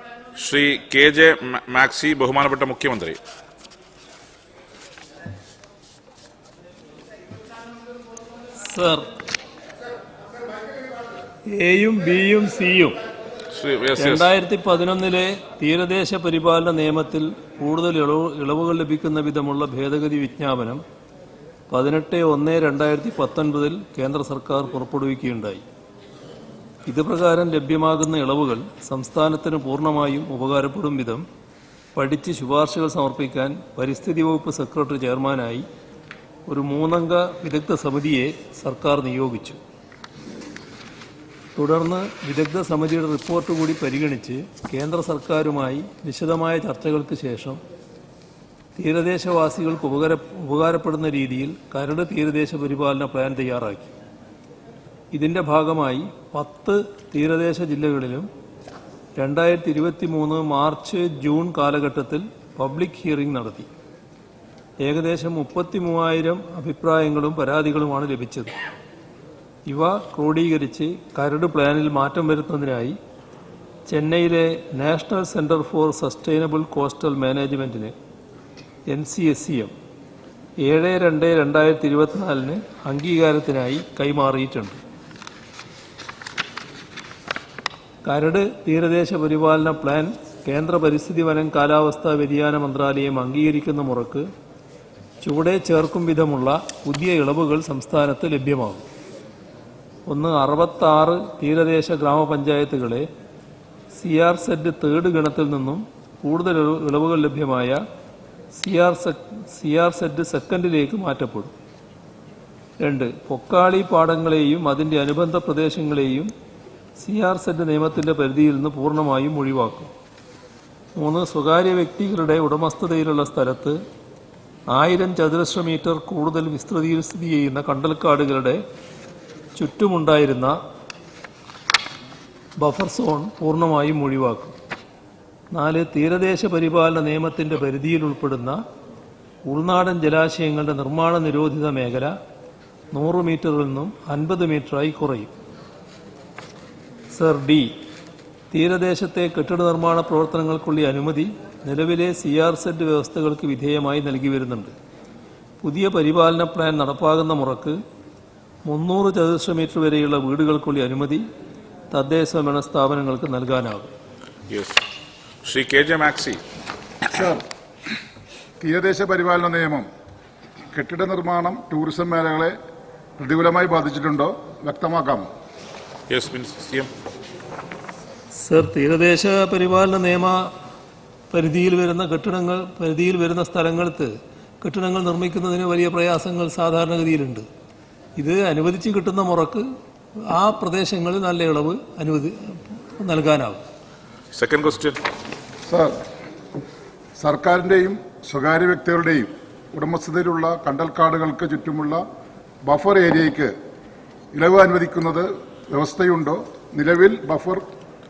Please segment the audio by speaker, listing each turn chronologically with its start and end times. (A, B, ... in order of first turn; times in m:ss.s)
0:00.4-0:03.2 A
0:08.6-0:09.1 B
0:11.5-0:13.0 B
0:13.5-0:14.3 A
0:14.0-0:20.8 B
0:21.7-0:25.6 B
0:26.8-0:31.2 B
0:32.0-0:35.6 B
0:36.5-0:39.6 B
0:41.6-0:47.6 B
0:48.7-0:53.9 B
0:55.1-0:58.3 B
0:59.2-1:03.7 B
1:04.8-1:08.5 B
1:09.7-1:13.0 B
1:13.9-1:17.9 B
1:18.9-1:19.7 B
1:20.6-1:24.8 B
1:28.0-1:34.3 B
1:35.2-1:38.8 B
1:40.1-1:43.1 B
1:43.9-1:47.8 B
1:48.6-1:51.5 B
1:52.8-1:56.3 B
1:57.0-1:59.9 B
2:01.0-2:03.8 B
2:04.7-2:08.6 B
2:09.6-2:10.6 B
2:12.6-2:14.6 B
2:15.5-2:18.6 B
2:19.5-2:22.2 B
2:22.9-2:25.3 B
2:27.1-2:27.7 B
2:28.5-2:34.7 B
2:35.6-2:37.8 B
2:38.7-2:41.2 B
2:41.9-2:43.9 B
2:44.5-2:44.8 A
2:45.4-2:46.4 A
2:48.6-2:49.8 C
2:50.7-2:52.5 C
2:53.2-2:55.2 C
2:56.1-2:56.9 A
2:58.3-3:00.5 B
3:01.3-3:07.5 B
3:08.2-3:09.7 B
3:10.3-3:13.6 B
3:14.3-3:15.0 A
3:15.7-3:16.0 C
3:17.2-3:22.0 C
3:22.7-3:23.5 C
3:24.3-3:27.6 C